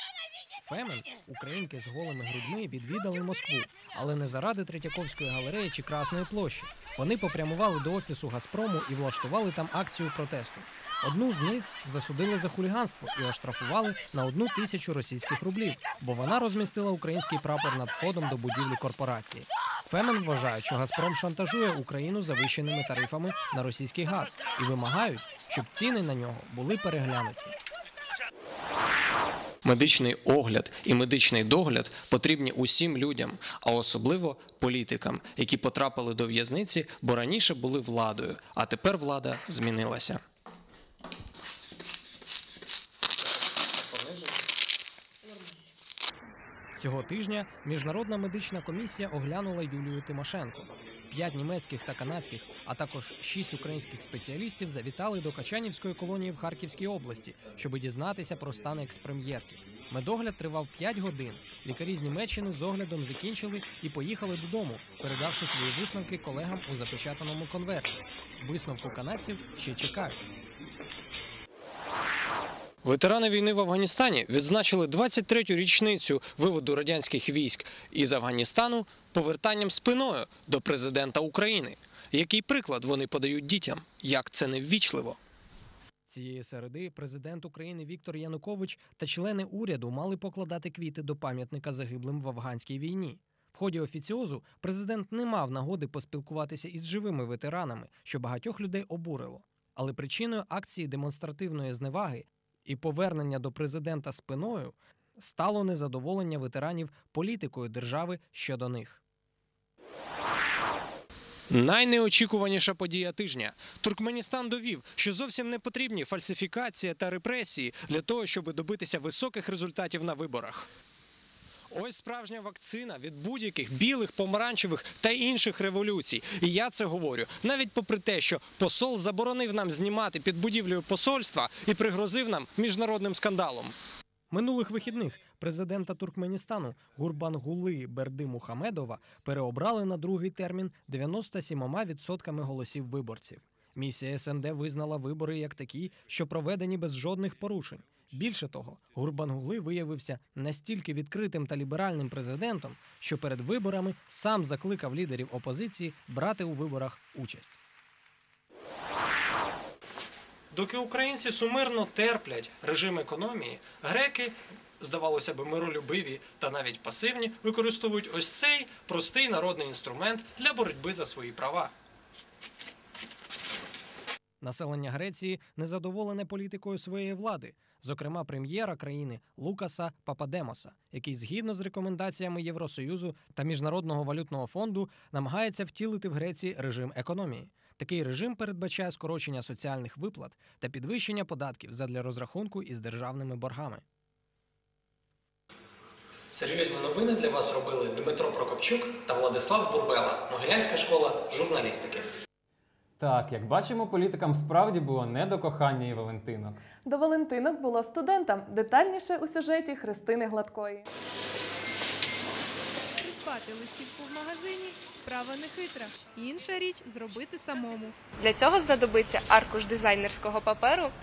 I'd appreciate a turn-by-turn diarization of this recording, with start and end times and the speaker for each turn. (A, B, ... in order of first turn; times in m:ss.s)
0:00.6-0:27.6 A
0:29.6-0:40.2 B
0:46.8-1:10.2 A
1:12.8-1:25.2 B
1:26.0-1:49.0 A
1:51.5-2:00.7 B
2:01.7-2:13.7 B
2:14.3-2:37.6 A
2:40.5-2:51.7 B
2:54.4-3:13.8 A
3:16.3-3:22.1 B
3:23.0-3:26.6 C
3:26.8-3:30.9 D
3:33.0-3:37.9 E
3:38.2-3:40.8 F